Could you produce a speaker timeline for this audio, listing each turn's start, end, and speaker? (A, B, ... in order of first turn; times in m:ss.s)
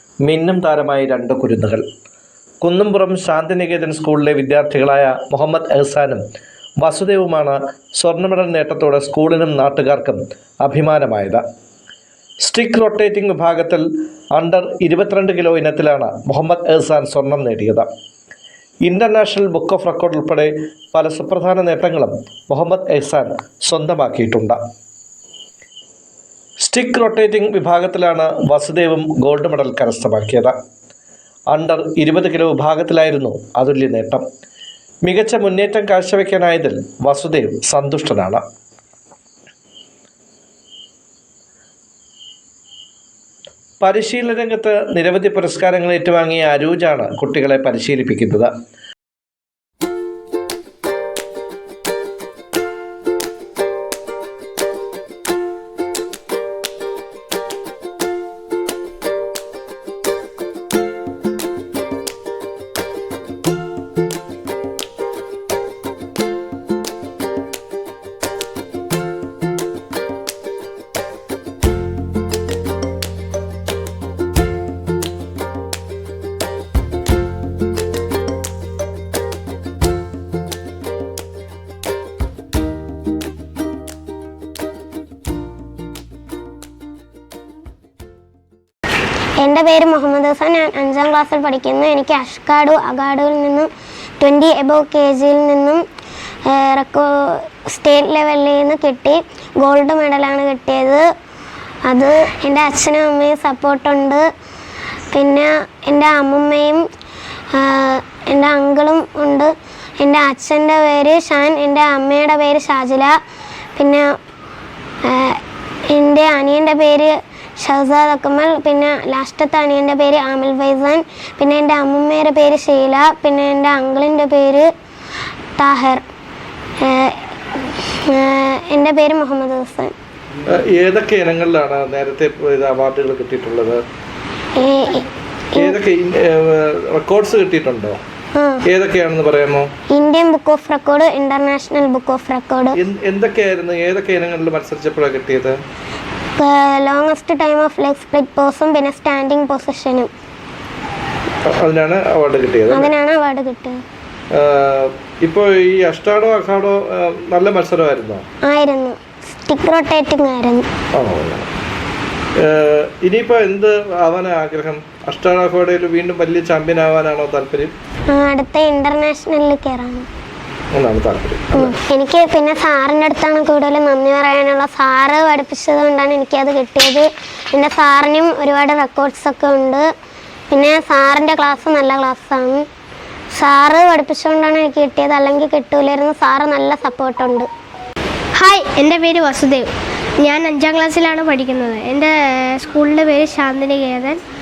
0:00.2-0:01.8 A
0:02.6-0:06.2 A
0:06.8-0:11.4 A
0:12.4-0:17.9 A
0:18.8-0:24.6 A
0:26.6-0:30.5 A
0:31.5-0:34.2 A
0:35.0-0:38.4 A
0:43.8-0:48.5 A
1:29.4-1:33.7 B
1:34.2-1:35.8 B
1:36.4-1:41.0 B
1:41.8-1:44.2 B
1:45.1-1:46.8 B
1:47.5-1:53.2 B
1:53.8-1:54.1 B
1:55.0-2:04.7 B
2:05.6-2:06.0 B
2:06.8-2:09.9 B
2:10.5-2:13.8 A
2:14.6-2:15.8 B
2:15.6-2:16.0 A
2:17.0-2:18.0 A
2:18.3-2:18.6 B
2:18.7-2:19.7 A
2:19.9-2:22.8 B
2:22.8-2:25.5 A
2:26.4-2:30.1 B
2:31.6-2:32.9 A
2:32.7-2:33.8 B
2:35.8-2:38.2 A
2:38.4-2:40.6 B
2:41.0-2:41.3 A
2:43.0-2:47.7 A
2:48.1-2:50.1 B
2:50.7-2:51.7 A
2:51.5-2:59.9 B
3:00.5-3:02.6 B
3:03.3-3:07.5 B
3:08.4-3:09.6 C
3:10.2-3:14.2 C